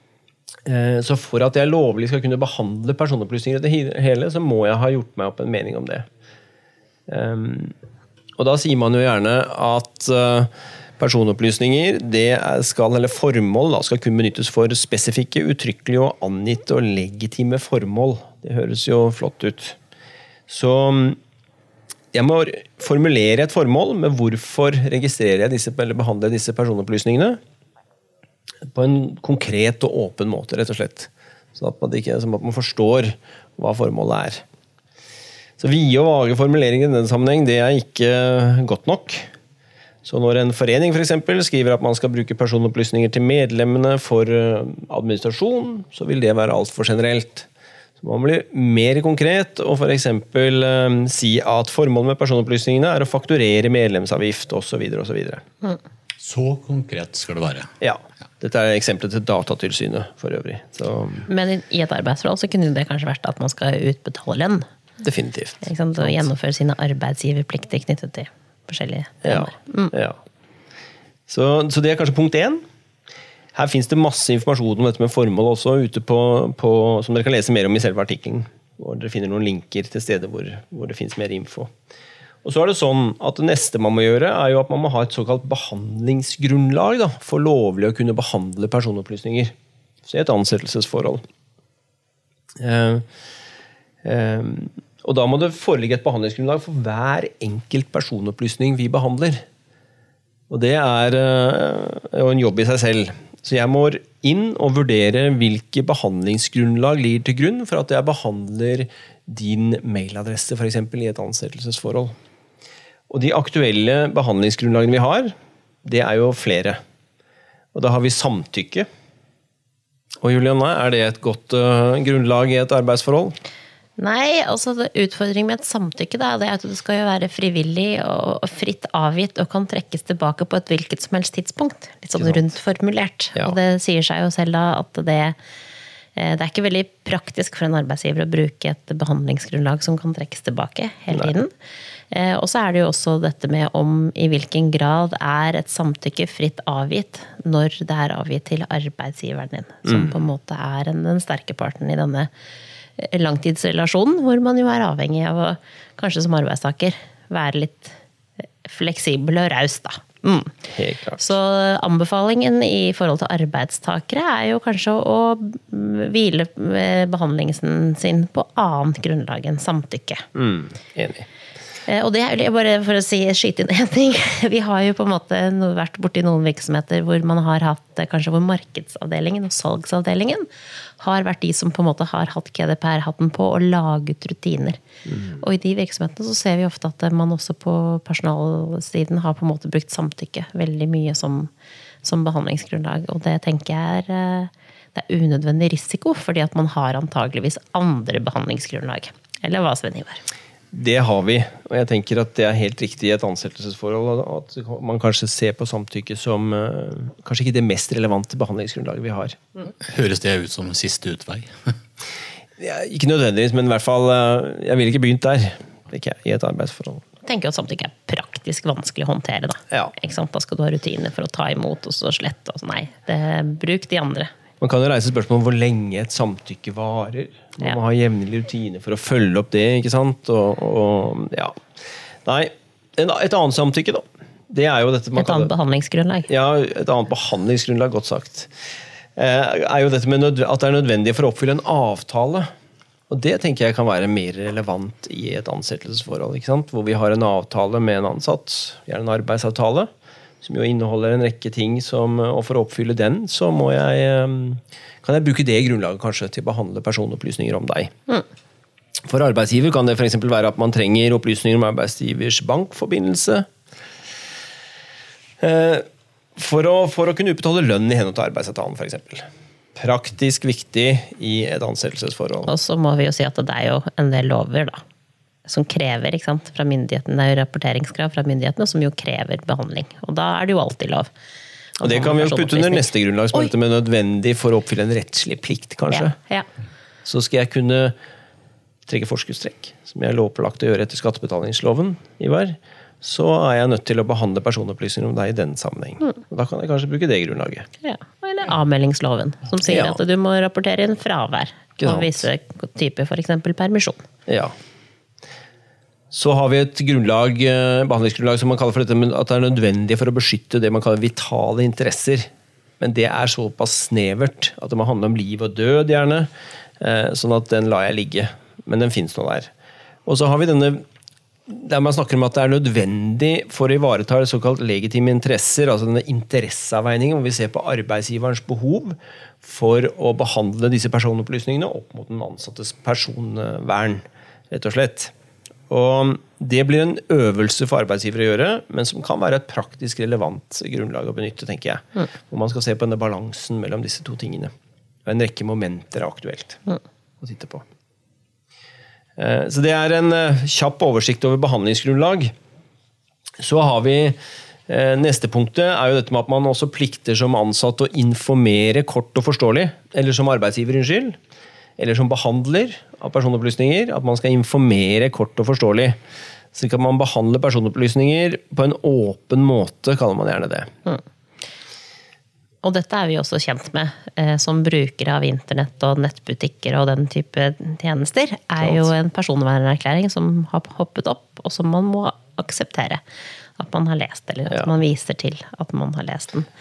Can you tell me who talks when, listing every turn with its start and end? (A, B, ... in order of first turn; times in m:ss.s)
0:00.6-0:06.1 A
0:07.1-0:07.7 A
0:08.4-0:19.8 A
0:20.5-0:21.2 A
0:22.1-0:27.4 A
0:28.7-0:34.4 A
0:35.6-0:39.3 A
0:40.0-0:47.5 A
0:48.0-0:55.4 A
0:56.2-0:57.7 B
0:57.8-1:01.3 A
1:01.3-1:04.6 C
1:05.0-1:06.3 A
1:05.6-1:09.9 C
1:09.2-1:10.2 A
1:11.3-1:12.6 A
1:13.5-1:21.7 A
1:22.4-1:29.5 A
1:30.0-1:31.2 A
1:32.6-1:33.0 A
1:34.0-1:39.4 A
1:40.5-1:52.1 A
1:53.1-1:55.3 A
1:55.8-1:56.8 A
1:57.7-1:58.9 A
2:00.2-2:03.3 A
2:04.0-2:15.4 C
2:16.2-2:21.5 C
2:22.1-2:32.3 C
2:29.8-2:30.1 A
2:33.0-2:38.0 C
2:38.6-2:40.6 C
2:40.7-2:41.2 A
2:41.2-2:50.2 C
2:50.3-2:51.3 A
2:51.8-3:00.4 C
3:01.0-3:04.8 C
3:05.4-3:11.5 C
3:12.0-3:20.2 C
3:20.7-3:29.4 A
3:29.8-3:31.5 B
3:32.6-3:37.0 A
3:37.2-3:44.3 C
3:44.6-3:51.6 A
3:52.2-3:55.5 A
3:55.2-3:56.3 C
3:56.3-3:58.5 A
3:59.2-4:02.5 A
4:03.1-4:09.9 A
4:10.4-4:17.9 A
4:19.1-4:23.5 A
4:25.4-4:25.8 A
4:26.4-4:32.5 A
4:32.4-4:34.8 C
4:35.4-4:41.1 C
4:41.8-4:43.5 C
4:41.8-4:46.2 A
4:45.9-4:46.5 C
4:47.0-4:47.9 A
4:48.9-4:57.6 A
4:57.8-5:04.0 C
4:59.6-5:00.0 A
5:01.8-5:02.2 A
5:04.3-5:04.5 A
5:06.1-5:12.3 A
5:12.8-5:16.3 A
5:16.8-5:19.5 A
5:20.0-5:20.8 A
5:21.5-5:35.1 A
5:35.7-5:44.5 A
5:45.0-5:47.6 A
5:49.2-5:52.3 A
5:53.4-5:54.2 A
5:54.7-6:01.2 A
6:01.8-6:06.0 A
6:06.5-6:10.7 A
6:12.6-6:23.0 C
6:18.6-6:18.9 A
6:23.6-6:26.5 C